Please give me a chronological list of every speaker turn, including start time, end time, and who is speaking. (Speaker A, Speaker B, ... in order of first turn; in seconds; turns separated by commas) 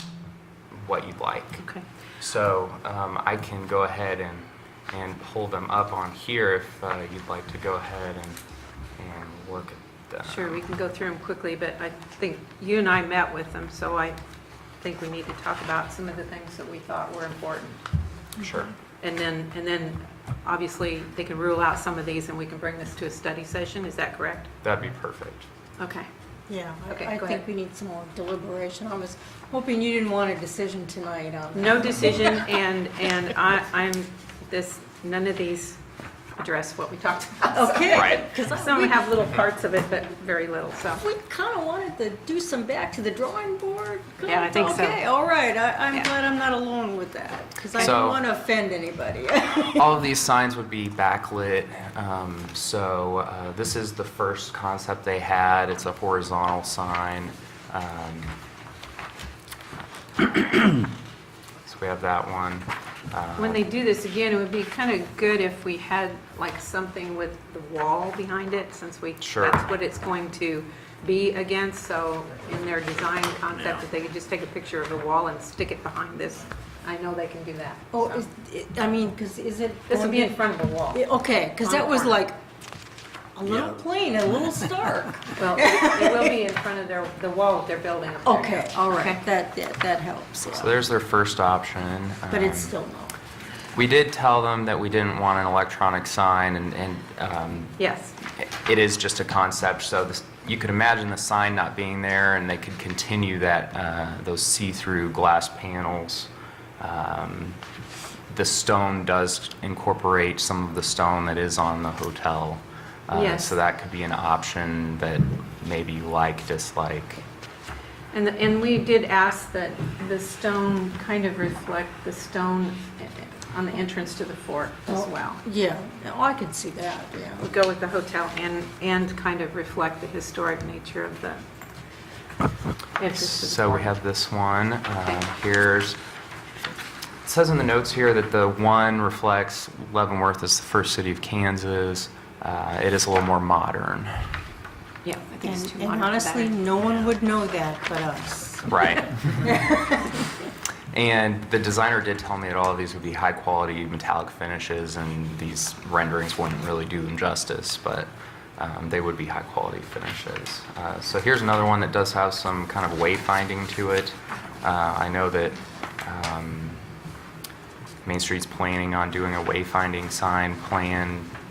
Speaker A: 0.7-1.7, Speaker B: 1.6-1.8, Speaker A: 2.2-8.4, Speaker A: 9.0-10.6, Speaker B: 10.2-14.2, Speaker B: 14.8-17.8, Speaker A: 18.4-18.7, Speaker B: 19.0-24.5, Speaker A: 24.6-25.5, Speaker B: 25.8-26.1, Speaker C: 26.5-32.5, Speaker B: 26.9-27.4, Speaker B: 31.5-35.8, Speaker B: 36.4-41.0, Speaker C: 37.5-39.1, Speaker A: 37.9-38.2, Speaker C: 41.0-49.9, Speaker B: 44.2-45.0, Speaker A: 47.8-48.2, Speaker A: 49.7-58.3, Speaker A: 61.6-63.7, Speaker B: 63.4-78.2, Speaker A: 69.2-69.6, Speaker C: 77.9-82.4, Speaker B: 79.9-81.0, Speaker B: 81.6-82.2, Speaker C: 83.3-86.4, Speaker B: 85.4-89.2, Speaker C: 88.2-90.8, Speaker A: 90.5-92.8, Speaker C: 92.3-93.2, Speaker A: 93.7-97.8, Speaker B: 97.8-98.1, Speaker A: 98.3-107.6, Speaker A: 108.3-117.2, Speaker B: 113.1-113.6, Speaker B: 118.1-125.4, Speaker C: 124.9-127.5, Speaker B: 127.4-131.4, Speaker B: 133.0-133.9, Speaker A: 133.1-136.0, Speaker A: 137.2-144.2, Speaker B: 145.0-146.6, Speaker C: 145.4-150.2, Speaker A: 148.7-149.2, Speaker A: 150.9-166.8, Speaker A: 168.0-171.3